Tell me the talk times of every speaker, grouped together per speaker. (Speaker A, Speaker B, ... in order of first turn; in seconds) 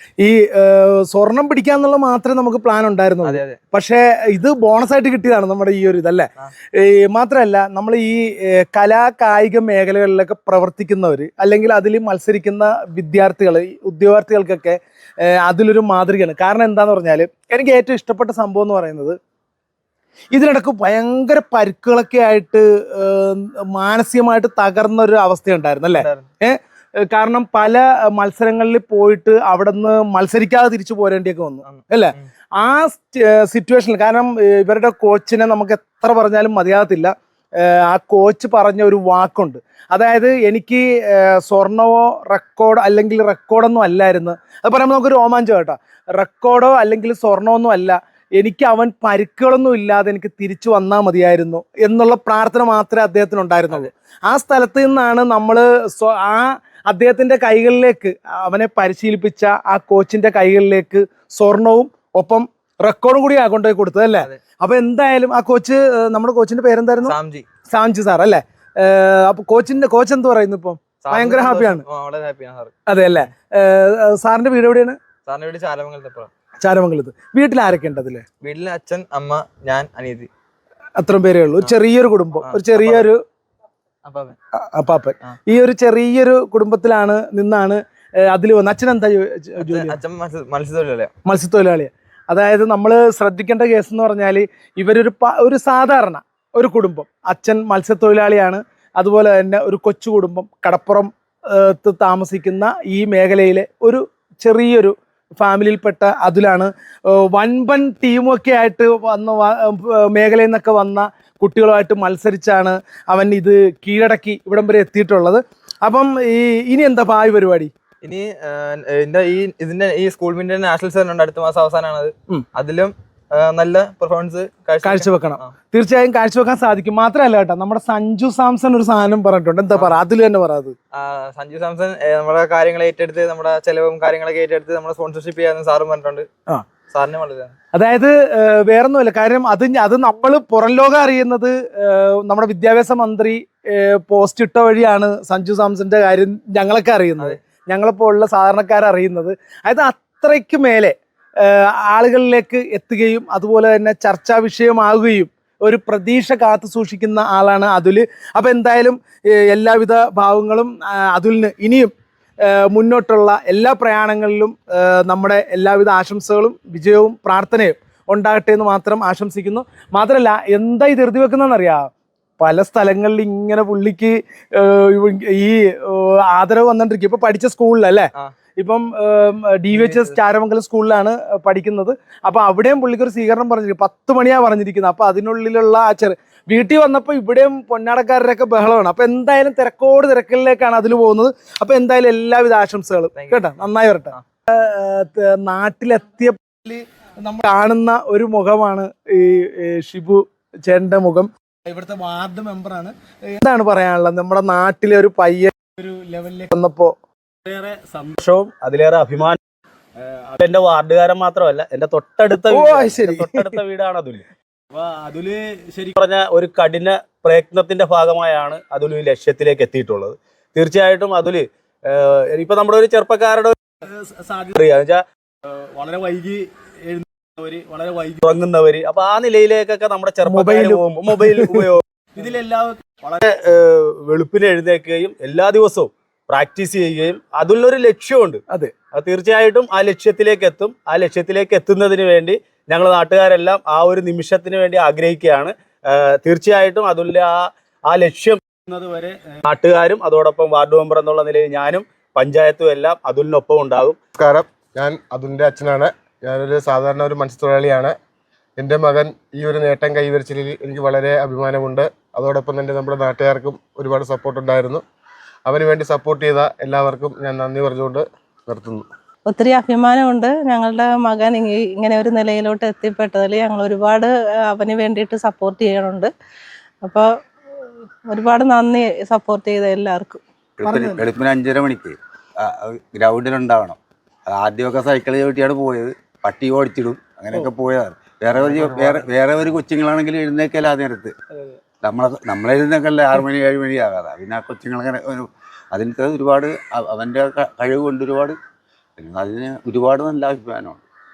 Speaker A: 0.2-19.2, 20.3-67.1, 67.7-71.8, 72.9-75.0, 76.6-78.2, 81.0-83.2, 84.6-90.0, 91.2-117.7, 124.8-130.7, 137.7-161.9, 162.4-206.9, 212.4-213.6, 230.2-231.7, 280.6-281.1
Speaker B: 3.2-3.6, 26.0-26.2, 31.6-32.3, 67.0-67.5, 71.0-72.8, 75.2-76.3, 78.4-80.3, 82.4-83.1, 84.0-84.3, 89.6-91.1, 118.0-125.5, 130.9-136.3, 136.9-137.5, 179.7-180.2, 193.1-194.2
Speaker C: 207.4-209.4, 210.0-225.0, 225.8-254.0
Speaker D: 254.2-257.9, 258.6-264.8, 265.4-268.9
Speaker E: 269.3-276.1, 278.1-280.2
Speaker F: 280.6-291.1, 291.8-298.4, 299.0-300.8